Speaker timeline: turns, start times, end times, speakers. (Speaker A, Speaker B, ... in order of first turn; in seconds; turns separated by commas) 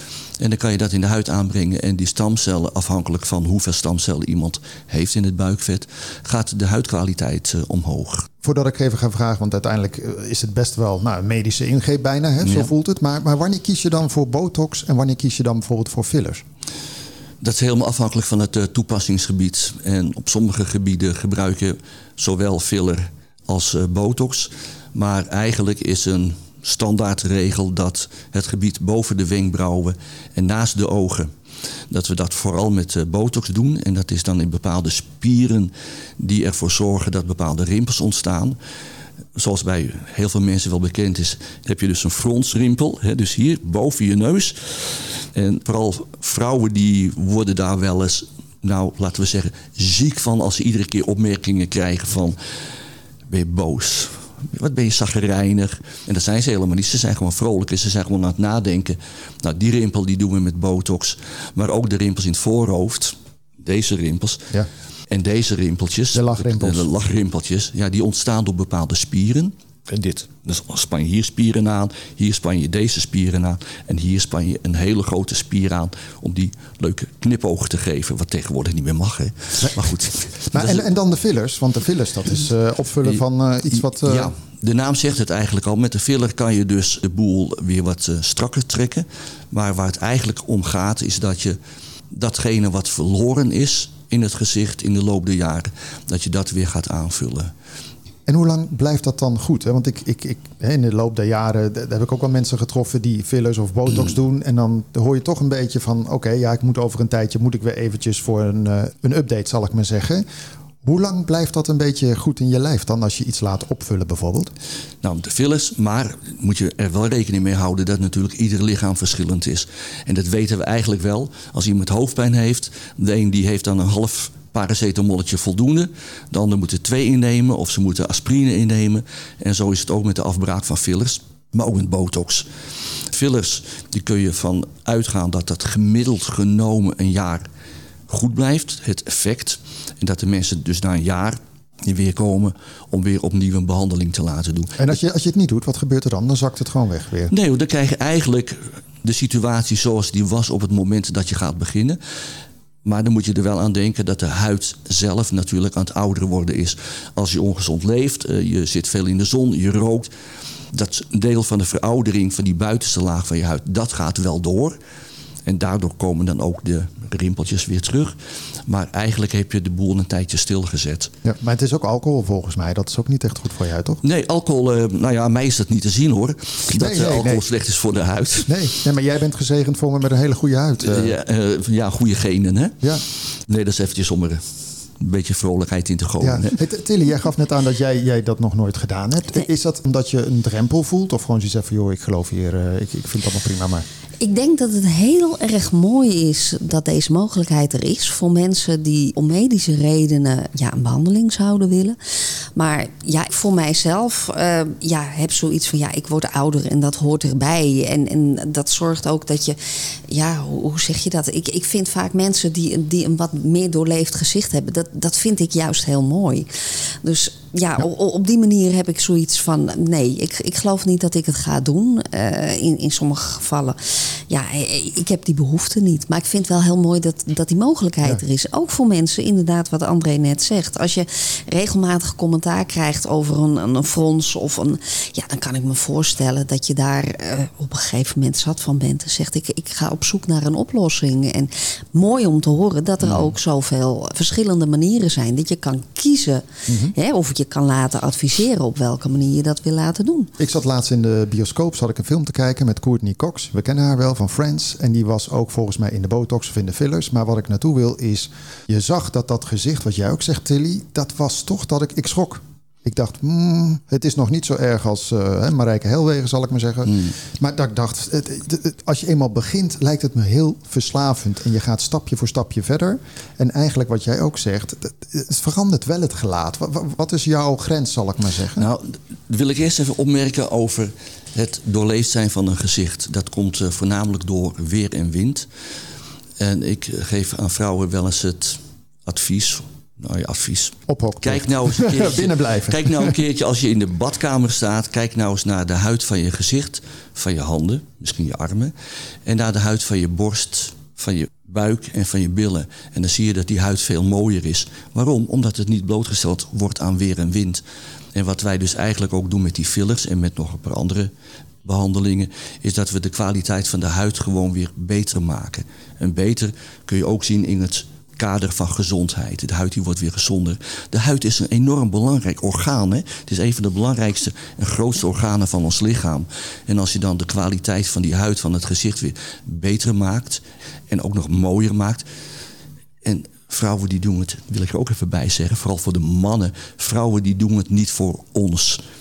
Speaker A: 0.4-8.3, Speaker B: 8.4-16.4, Speaker A: 12.4-12.7, Speaker A: 17.4-31.3, Speaker A: 31.9-38.6, Speaker A: 39.4-52.4, Speaker A: 53.3-64.5, Speaker A: 65.1-80.8, Speaker B: 66.1-66.9, Speaker B: 80.5-84.3, Speaker A: 83.7-91.6, Speaker A: 92.1-97.5, Speaker B: 98.3-110.2, Speaker B: 110.8-114.5, Speaker A: 115.0-132.5, Speaker A: 133.1-137.4, Speaker A: 138.1-144.9, Speaker B: 144.8-147.3, Speaker A: 147.3-152.0, Speaker A: 152.8-160.1, Speaker A: 160.7-164.8, Speaker A: 165.4-168.1, Speaker A: 168.7-171.1, Speaker B: 171.2-174.0, Speaker A: 174.0-178.5, Speaker B: 176.7-177.4, Speaker B: 178.4-181.1, Speaker A: 180.8-182.8, Speaker A: 183.5-184.4, Speaker A: 185.0-186.5, Speaker B: 186.2-193.8, Speaker C: 194.2-202.0, Speaker C: 202.5-216.5, Speaker C: 217.0-250.3, Speaker B: 246.7-246.9, Speaker B: 250.4-278.7, Speaker A: 278.6-285.5, Speaker A: 286.4-298.7, Speaker B: 290.9-293.1, Speaker A: 299.2-307.6, Speaker A: 308.1-311.1, Speaker A: 311.6-332.0, Speaker A: 333.0-338.8